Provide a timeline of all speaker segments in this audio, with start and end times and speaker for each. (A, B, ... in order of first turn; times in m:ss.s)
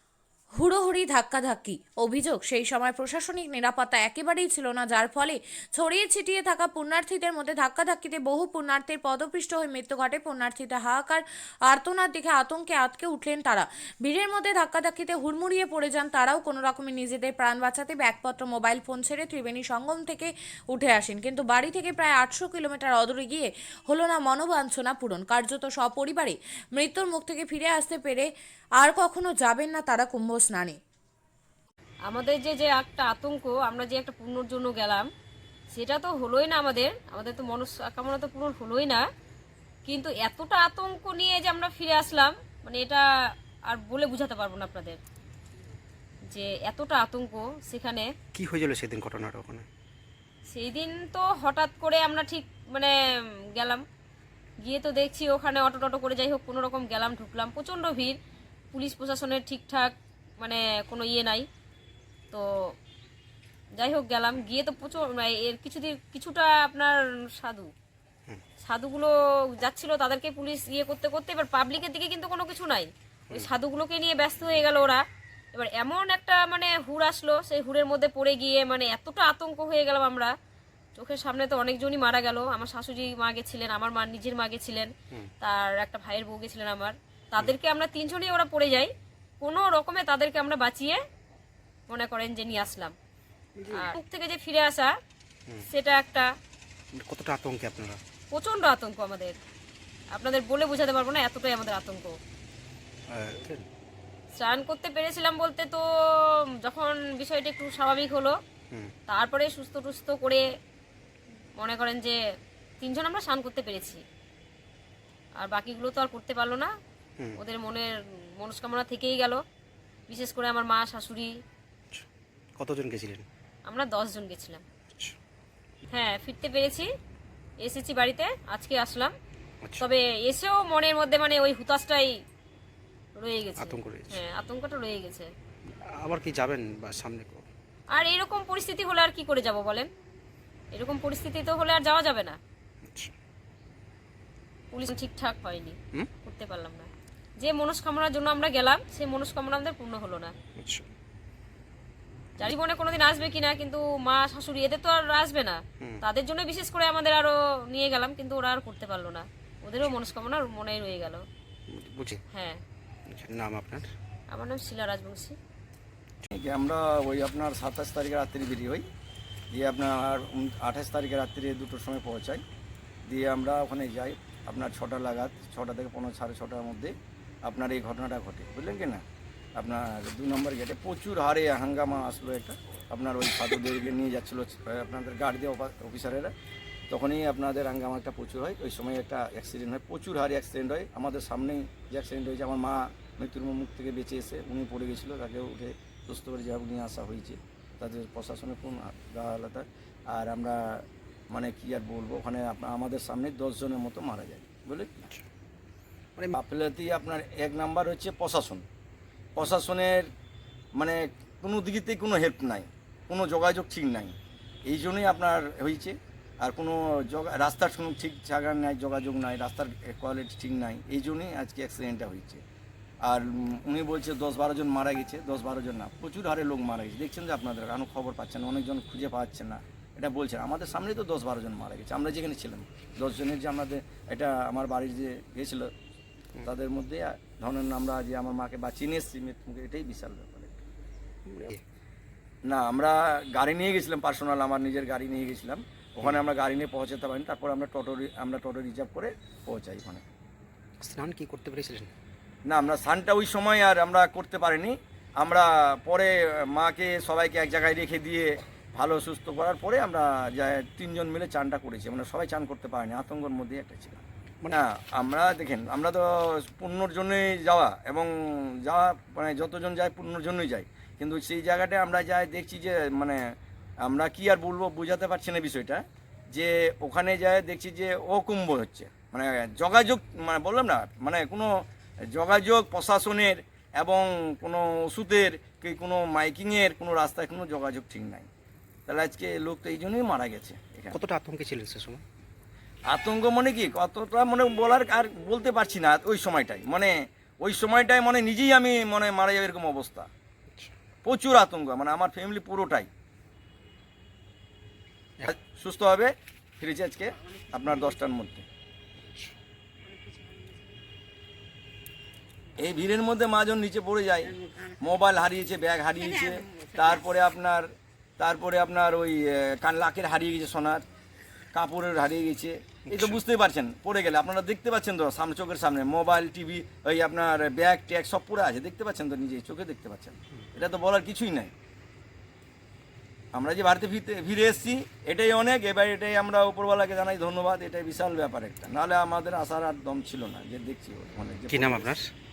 0:00.6-0:28.3 A
0:28.8-0:30.8 A
0:32.1-0:35.1 B
0:35.7-0:39.0 B
0:39.8-0:43.0 B
0:43.7-0:45.0 B
0:46.3-0:48.1 B
0:48.3-0:49.6 C
0:50.5-0:53.0 B
0:53.5-0:53.8 B
0:54.6-0:58.2 B
0:58.7-1:01.5 B
1:02.3-1:02.7 B
1:03.8-1:07.7 B
1:08.6-1:20.3 B
1:21.0-1:31.0 B
1:31.9-1:32.9 B
1:33.6-1:34.0 C
1:33.7-1:34.9 B
1:35.7-1:36.3 B
1:37.0-1:38.0 C
1:38.3-1:39.4 B
1:40.1-1:42.2 B
1:43.1-1:43.7 C
1:44.4-1:48.4 B
1:49.1-1:50.5 B
1:51.6-1:52.2 B
1:52.8-1:54.0 B
1:55.4-1:56.7 B
1:57.4-1:59.4 B
2:00.1-2:01.3 B
2:02.6-2:03.2 C
2:03.7-2:04.6 B
2:05.9-2:06.9 B
2:07.6-2:09.2 B
2:09.8-2:12.2 B
2:13.2-2:15.3 B
2:13.6-2:14.2 C
2:15.9-2:17.4 C
2:17.9-2:19.9 B
2:20.7-2:22.4 B
2:22.8-2:23.1 C
2:24.7-2:30.3 B
2:30.6-2:30.9 C
2:32.4-2:41.2 B
2:41.7-2:42.2 C
2:42.3-2:42.6 B
2:43.1-2:43.9 C
2:44.3-2:45.3 B
2:46.3-2:48.8 D
2:49.5-2:52.4 D
2:53.1-2:56.9 D
2:57.4-2:59.0 D
2:59.6-3:06.3 D
3:06.9-3:25.0 D
3:26.3-3:28.6 D
3:29.4-3:30.1 D
3:30.8-3:42.4 D
3:43.0-3:55.7 D
3:56.4-4:00.5 D
4:01.3-4:01.6 C
4:02.4-4:10.0 D
4:10.8-4:11.9 C
4:12.4-4:48.3 D
4:48.9-4:51.0 D
4:50.9-4:52.0 C
4:52.9-5:00.1 D
5:01.0-5:02.9 D
5:05.2-5:08.4 D
5:09.0-5:09.3 C
5:12.6-5:20.8 D
5:21.5-5:31.5 D
5:22.9-5:23.2 C
5:33.3-5:41.9 D
5:41.5-5:42.1 C